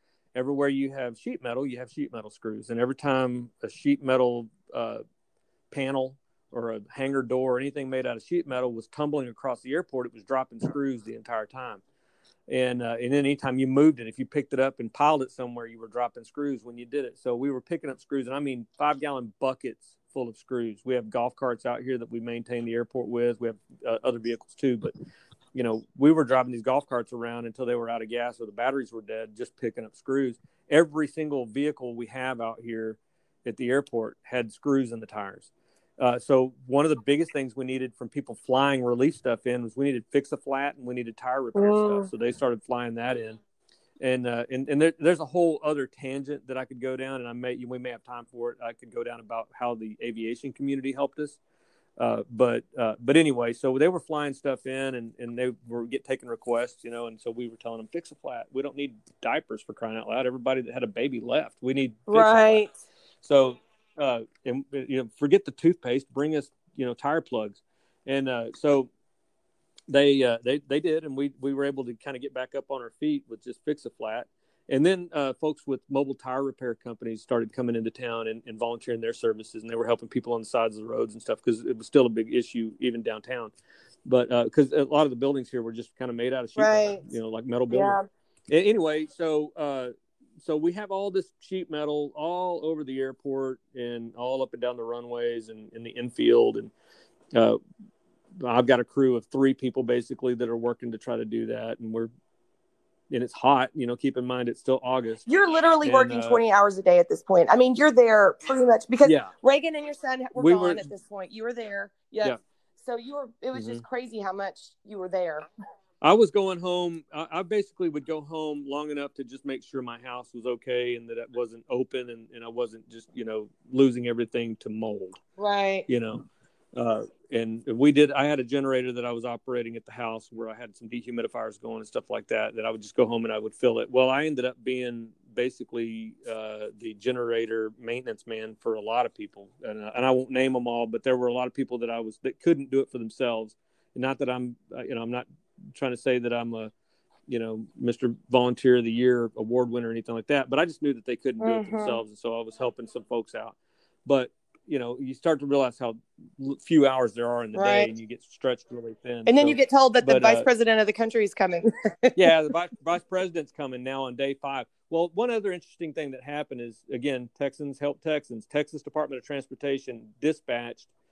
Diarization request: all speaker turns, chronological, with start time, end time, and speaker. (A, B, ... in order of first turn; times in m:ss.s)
0:00.3-0:05.0 A
0:05.7-0:11.8 A
0:12.5-0:24.9 A
0:25.5-0:43.4 A
0:41.6-0:42.1 B
0:44.0-0:51.4 A
0:52.0-1:02.6 A
1:02.1-1:02.7 B
1:03.2-1:08.9 A
1:09.9-1:23.5 A
1:24.0-1:28.0 A
1:26.6-1:27.0 B
1:27.7-1:28.0 B
1:28.5-1:36.7 A
1:37.3-1:37.6 A
1:38.4-1:42.1 A
1:43.1-1:45.2 A
1:45.3-1:55.4 B
1:45.8-1:46.4 A
1:49.0-1:49.3 A
1:50.4-1:50.9 A
1:53.5-1:53.8 A
1:56.0-2:05.2 A
2:05.4-2:05.9 B
2:05.9-2:26.7 A
2:27.3-2:40.5 A
2:31.4-2:32.0 B
2:37.6-2:37.9 B
2:39.3-2:42.3 B
2:42.2-2:50.9 A